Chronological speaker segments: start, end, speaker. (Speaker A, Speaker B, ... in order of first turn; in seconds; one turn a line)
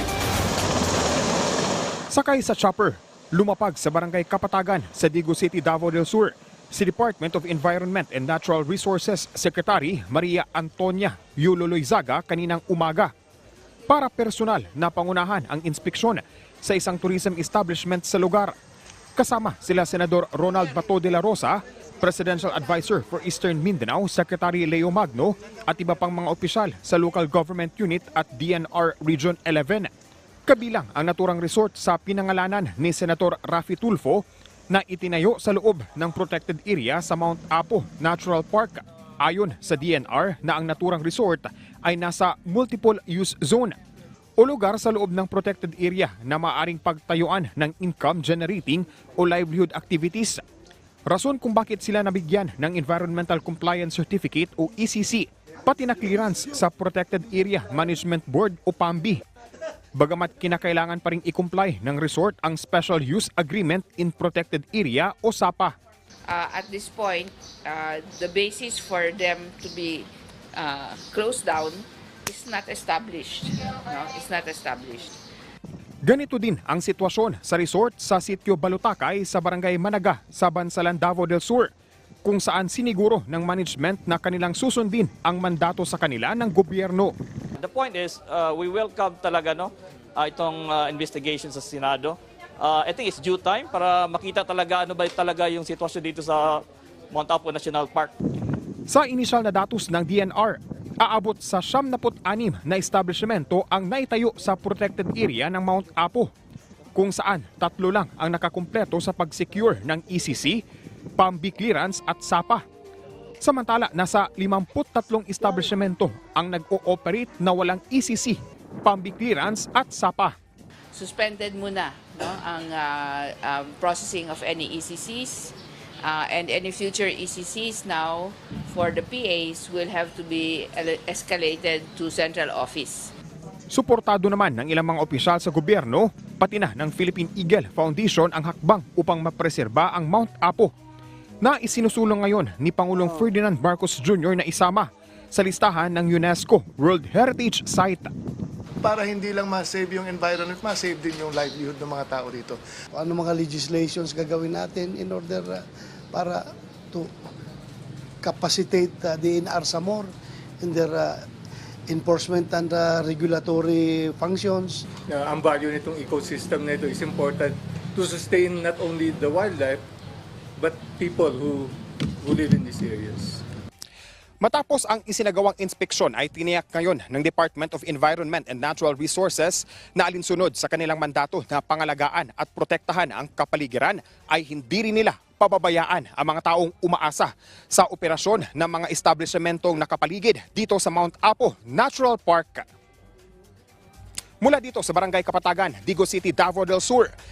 Speaker A: 2.1-13.1
Speaker A: 13.9-18.6
Speaker A: 19.2-29.9
Speaker A: 30.5-43.8
Speaker A: 44.4-50.4
Speaker A: 51.1-59.2
Speaker A: 60.0-65.8
Speaker B: 66.3-75.2
Speaker A: 76.0-81.7
Speaker A: 82.2-87.1
Speaker C: 87.6-98.1
Speaker A: 98.9-106.3
Speaker A: 107.0-110.6
Speaker A: 111.2-112.6
Speaker A: 113.4-120.3
Speaker B: 120.9-133.1
Speaker A: 133.7-140.7
Speaker A: 141.4-148.1
Speaker D: 148.8-152.6
Speaker E: 152.9-157.1
Speaker E: 158.2-161.2
Speaker E: 161.9-164.8
Speaker F: 165.1-169.8
Speaker F: 170.6-173.4
Speaker A: 174.4-192.7
Speaker A: 194.4-197.1